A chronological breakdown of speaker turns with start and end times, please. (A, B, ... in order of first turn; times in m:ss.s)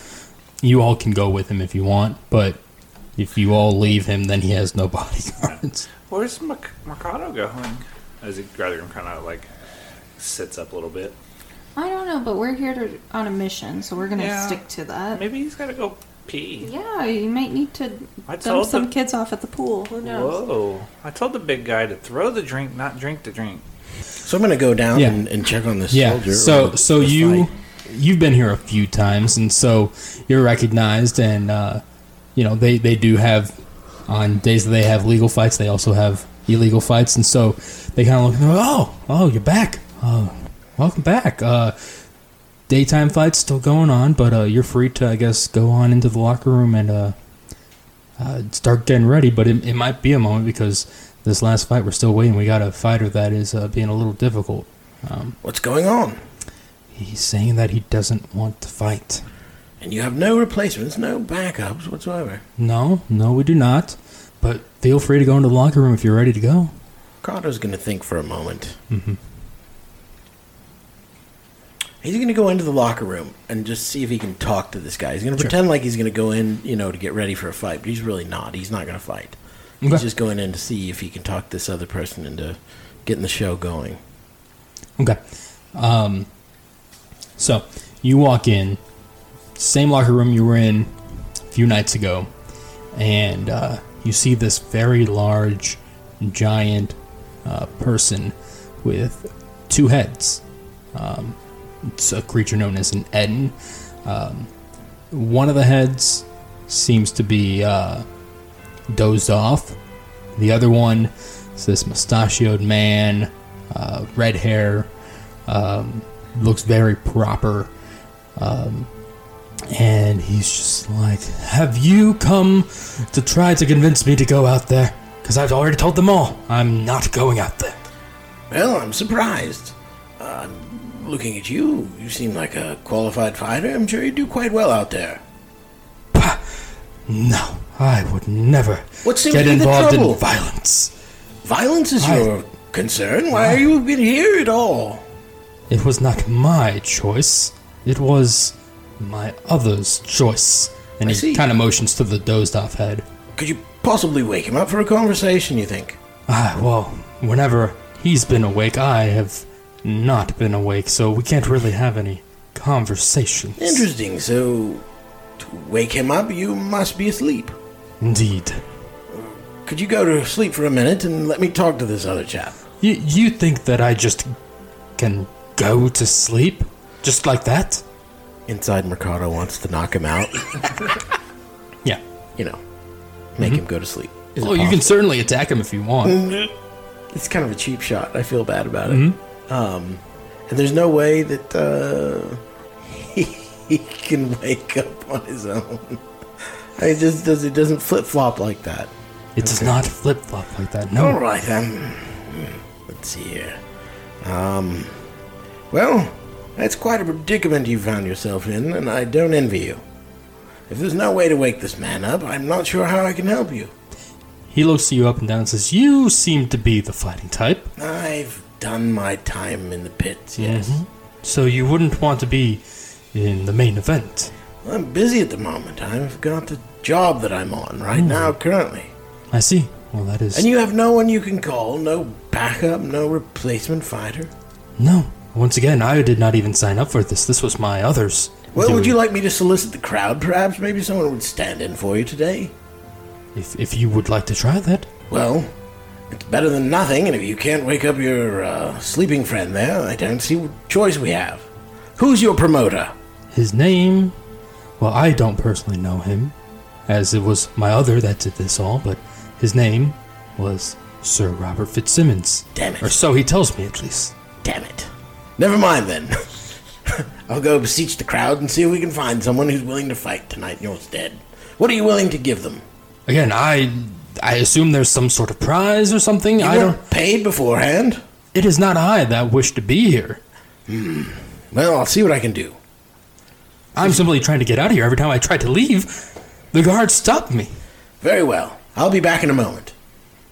0:00.6-0:02.6 A
0:03.2-0:05.8 A
0:06.1-0:09.5 B
0:10.2-0:11.2 B
0:11.8-0:15.2 C
0:14.2-0:14.6 B
0:15.1-0:16.7 B
0:16.6-0:20.4 C
0:18.3-0:18.9 B
0:19.9-0:23.6 B
0:24.2-0:27.5 D
0:24.9-0:25.2 A
0:25.9-0:31.8 A
0:32.4-0:33.5 A
0:34.1-0:41.8 A
0:42.7-0:47.2 A
0:48.2-0:55.4 A
0:55.4-0:56.2 D
0:56.9-0:59.2 A
0:59.8-1:02.4 D
1:02.6-1:06.7 A
1:07.2-1:08.8 D
1:08.9-1:09.2 A
1:12.0-1:24.0 D
1:25.8-1:26.3 A
1:27.4-1:28.8 A
1:29.6-1:30.9 A
1:31.5-1:32.3 A
1:33.0-1:40.4 A
1:40.9-1:44.5 A
1:45.1-1:48.0 A
1:48.9-1:49.8 A
1:50.4-1:54.9 A
1:55.5-1:57.7 A
1:58.4-1:58.9 A
1:59.7-2:07.8 A
2:08.5-2:15.2 D
2:16.1-2:20.9 A
2:19.0-2:20.2 D
2:21.4-2:25.0 D
2:22.0-2:22.3 A
2:23.3-2:23.6 A
2:25.7-2:33.0 A
2:31.0-2:31.4 D
2:33.4-2:36.0 D
2:36.3-2:43.9 A
2:43.6-2:44.8 D
2:45.4-2:47.6 D
2:48.0-2:48.6 A
2:49.1-2:52.6 D
2:52.8-2:54.3 A
2:55.0-2:57.8 A
2:58.5-3:01.0 D
3:03.4-3:04.9 D
3:04.4-3:06.2 A
3:06.0-3:06.5 D
3:07.1-3:16.0 D
3:08.9-3:09.2 A
3:16.8-3:19.8 D
3:19.4-3:21.2 A
3:21.0-3:23.6 D
3:24.2-3:24.9 D
3:25.7-3:29.8 D
3:30.7-3:33.7 D
3:34.5-3:37.7 A
3:37.8-3:40.8 D
3:40.4-3:44.3 A
3:44.6-3:48.9 D
3:48.0-3:48.4 A
3:49.3-3:50.5 A
3:50.3-3:54.3 D
3:54.8-3:59.0 A
3:58.5-4:02.5 D
4:03.4-4:04.9 A
4:05.1-4:05.5 D
4:06.1-4:11.5 D
4:12.0-4:12.9 D
4:13.3-4:14.1 A
4:14.8-4:16.3 A
4:16.9-4:24.1 A
4:22.6-4:22.9 D
4:24.4-4:26.3 D
4:26.9-4:32.6 D
4:33.1-4:36.8 A
4:36.4-4:38.0 D
4:38.3-4:40.2 A
4:40.7-4:42.6 D
4:43.8-4:47.5 A
4:48.0-4:49.7 D